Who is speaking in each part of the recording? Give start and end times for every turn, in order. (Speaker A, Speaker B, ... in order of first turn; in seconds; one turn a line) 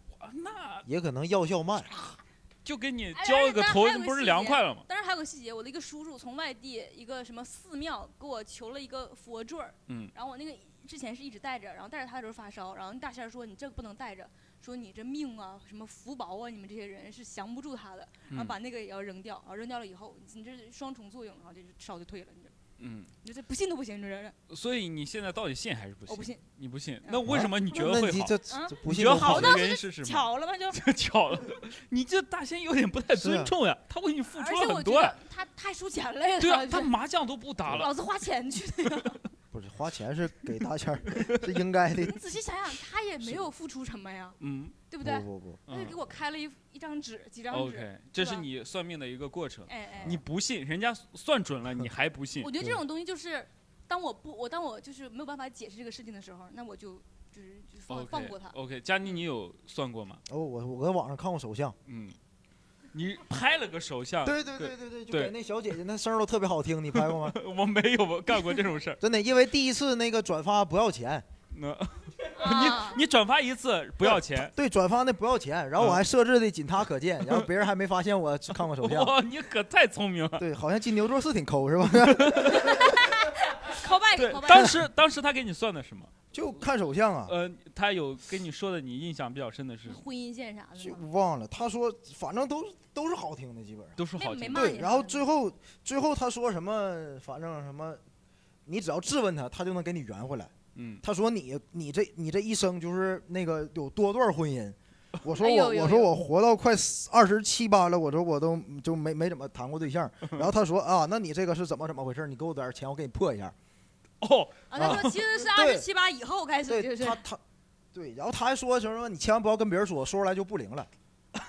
Speaker A: 0.1-0.9
Speaker B: 0.8-1.9
Speaker A: 1.9-4.9
Speaker C: 3.2-22.5
Speaker A: 18.3-18.6
Speaker A: 22.8-23.1
Speaker C: 23.2-24.4
Speaker A: 24.5-35.2
Speaker C: 26.1-26.4
Speaker B: 27.3-29.7
Speaker C: 28.5-30.8
Speaker B: 33.1-33.5
Speaker C: 34.3-36.9
Speaker A: 36.4-37.9
Speaker C: 37.7-39.2
Speaker B: 39.5-42.2
Speaker A: 41.1-41.5
Speaker C: 42.0-44.4
Speaker A: 44.4-44.8
Speaker C: 44.9-48.5
Speaker B: 45.0-45.6
Speaker A: 45.7-46.0
Speaker A: 47.5-52.5
Speaker C: 49.7-50.2
Speaker C: 52.4-58.6
Speaker A: 57.9-60.2
Speaker B: 60.3-61.8
Speaker A: 61.9-62.2
Speaker A: 62.9-65.3
Speaker B: 64.2-67.4
Speaker A: 66.9-69.0
Speaker B: 69.0-71.3
Speaker A: 71.5-74.5
Speaker C: 72.4-73.0
Speaker B: 74.0-79.2
Speaker A: 78.6-80.5
Speaker B: 80.4-82.8
Speaker A: 82.0-82.7
Speaker C: 82.5-84.8
Speaker A: 84.2-86.1
Speaker B: 86.3-87.3
Speaker A: 87.3-90.0
Speaker C: 89.9-91.0
Speaker B: 90.8-94.0
Speaker A: 94.0-94.8
Speaker C: 94.2-95.2
Speaker B: 94.5-98.0
Speaker B: 98.7-113.5
Speaker A: 100.8-101.0
Speaker C: 105.4-106.1
Speaker A: 114.2-115.2
Speaker C: 114.7-117.2
Speaker B: 114.8-115.9
Speaker B: 116.7-117.4
Speaker B: 117.9-120.9